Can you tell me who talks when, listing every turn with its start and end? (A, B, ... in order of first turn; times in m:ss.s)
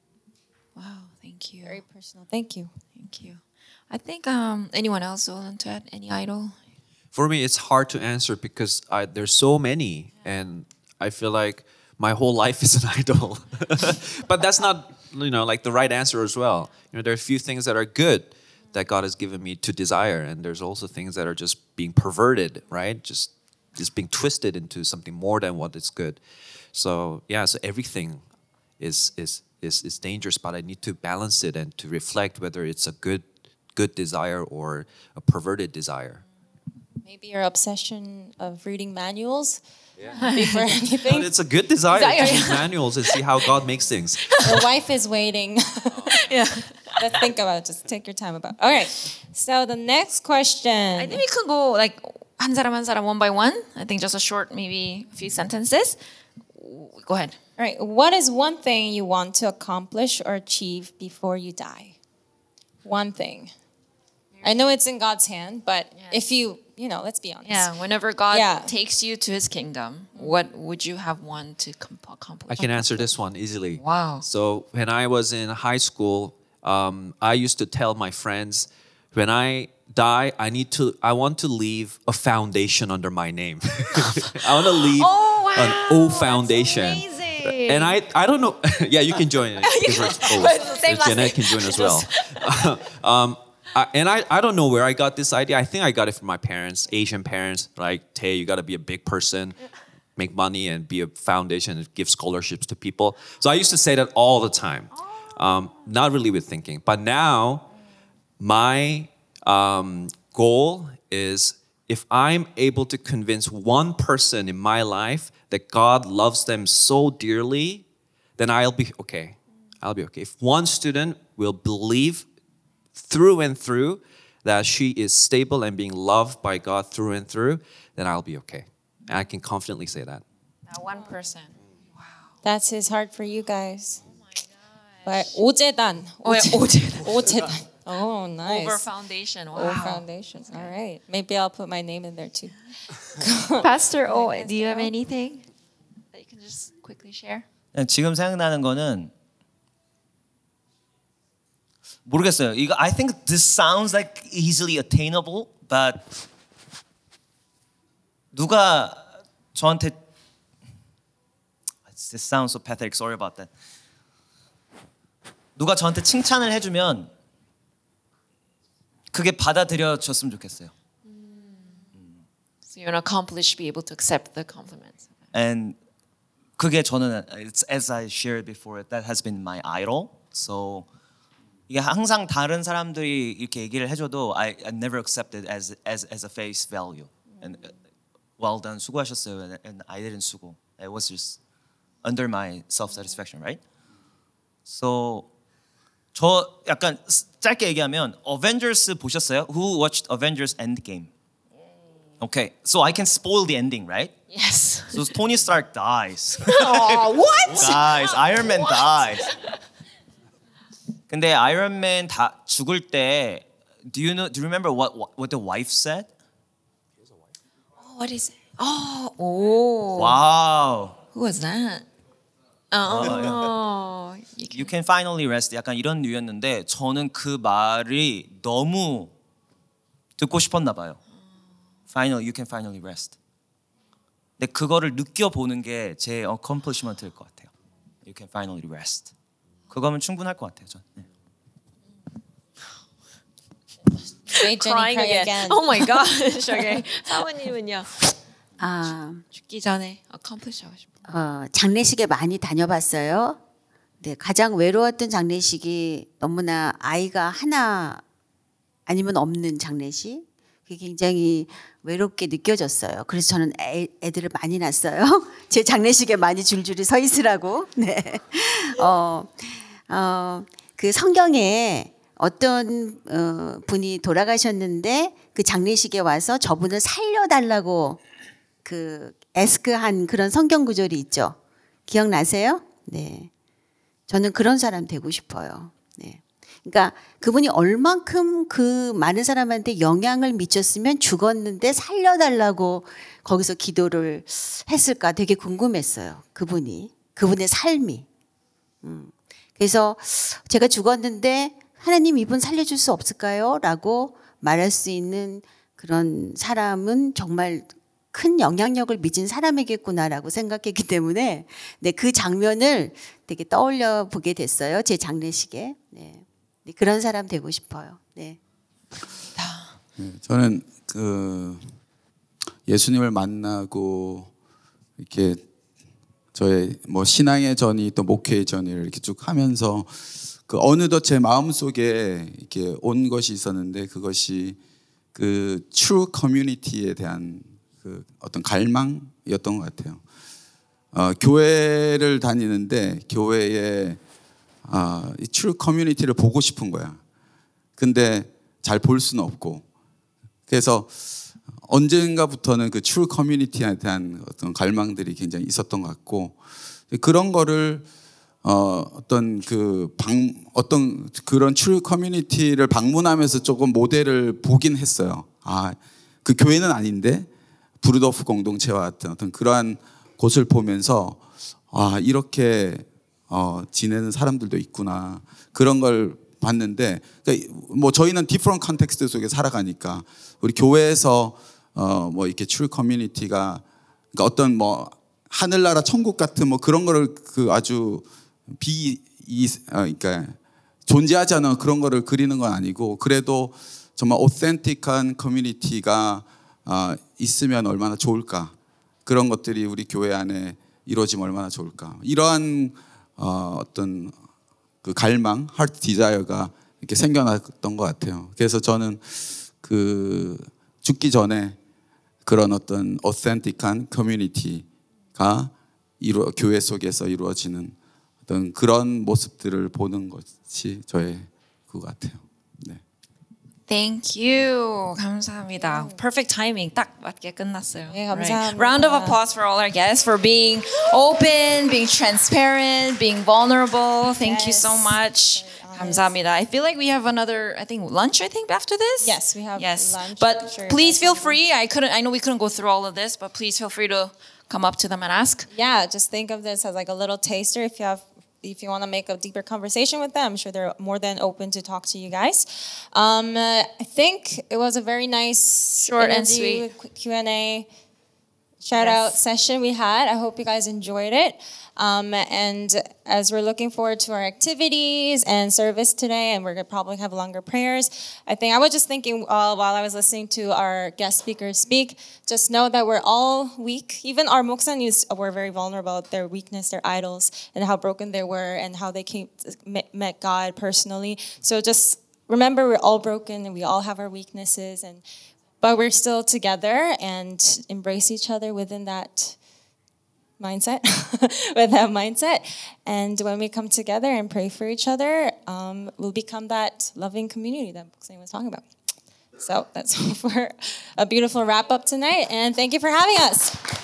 0:00.8-0:01.8 A
0:01.6-0:02.7 B
0:02.9-0:06.6 A
0:07.1-0:26.2 C
0:26.7-0:28.2 C
0:28.8-0:36.2 C
0:37.0-0:39.6 B
0:40.2-0:41.3 B
0:40.2-0:40.6 A
0:41.0-0:44.4 C
0:41.9-0:43.2 A
0:44.3-0:44.6 A
0:44.4-0:46.2 B
0:46.1-0:46.9 A
0:46.8-0:51.2 B
0:51.0-0:56.0 A
0:56.5-0:57.4 A
0:57.6-1:02.0 B
1:02.8-1:03.5 B
1:04.4-1:04.8 A
1:04.4-1:07.7 B
1:06.0-1:06.2 A
1:07.4-1:13.1 A
1:08.3-1:08.7 B
1:10.2-1:10.5 B
1:12.5-1:39.6 C
1:13.8-1:14.3 A
1:24.7-1:28.0 A
1:29.6-1:32.7 A
1:40.2-1:47.7 C
1:48.4-1:57.8 C
1:58.4-2:02.2 C
2:03.0-2:10.2 C
2:10.7-2:12.3 A
2:12.4-2:14.0 B
2:15.0-2:15.4 A
2:15.0-2:18.8 B
2:16.2-2:17.2 A
2:18.4-2:20.7 A
2:19.5-2:24.9 B
2:23.6-2:25.5 A
2:26.1-2:27.5 A
2:27.7-2:29.1 D
2:32.1-2:36.1 D
2:38.3-2:40.0 D
2:41.9-2:43.5 D
2:45.6-2:47.1 D
2:49.1-2:50.7 D
2:51.1-2:51.8 A
2:52.7-2:55.2 A
2:55.3-2:55.8 D
2:56.6-3:00.9 D
3:01.7-3:07.7 D
3:08.4-3:11.4 D
3:12.0-3:13.6 D
3:14.7-3:15.3 D
3:16.1-3:21.1 D
3:22.2-3:24.2 D
3:24.3-3:25.1 A
3:24.9-3:29.3 D
3:26.4-3:29.3 A
3:31.1-3:36.1 D
3:37.8-3:40.2 A
3:40.0-3:41.0 D
3:41.1-3:41.9 A
3:42.7-3:44.7 A
3:42.9-3:43.5 D
3:44.5-3:49.1 D
3:50.2-3:51.0 D
3:51.9-3:53.2 D
3:54.4-3:57.5 D
3:58.1-3:59.1 D
3:59.7-4:01.1 D
4:04.3-4:06.8 B
4:04.3-4:08.0 A
4:08.6-4:09.2 E
4:09.3-4:11.0 A
4:11.1-4:13.4 E
4:14.0-4:18.0 E
4:18.9-4:38.0 E
4:38.6-4:41.4 E
4:41.9-4:43.3 E
4:44.1-4:58.1 E
4:58.8-5:18.4 E
5:19.4-5:19.7 A
5:20.0-5:21.6 F
5:22.7-5:24.3 F
5:25.0-5:25.4 F
5:26.3-5:34.6 F
5:35.2-5:40.0 F
5:40.9-5:44.0 F
5:44.6-5:47.0 F
5:47.8-5:49.6 F
5:50.5-5:56.4 F
5:56.9-5:57.9 F
5:58.4-6:07.3 F
6:07.8-6:38.6 F
6:39.1-6:44.2 F
6:44.8-6:51.6 F
6:52.2-6:57.8 F
6:58.3-7:02.8 F
7:03.7-7:25.5 A
7:05.6-7:06.0 B
7:07.9-7:09.2 B
7:14.1-7:16.2 B
7:19.0-7:21.4 B
7:25.5-7:37.7 B
7:35.8-7:36.7 A
7:38.6-8:05.0 B
7:38.7-7:39.2 A
8:05.6-8:09.4 B
8:10.4-8:18.6 B
8:19.4-8:23.6 B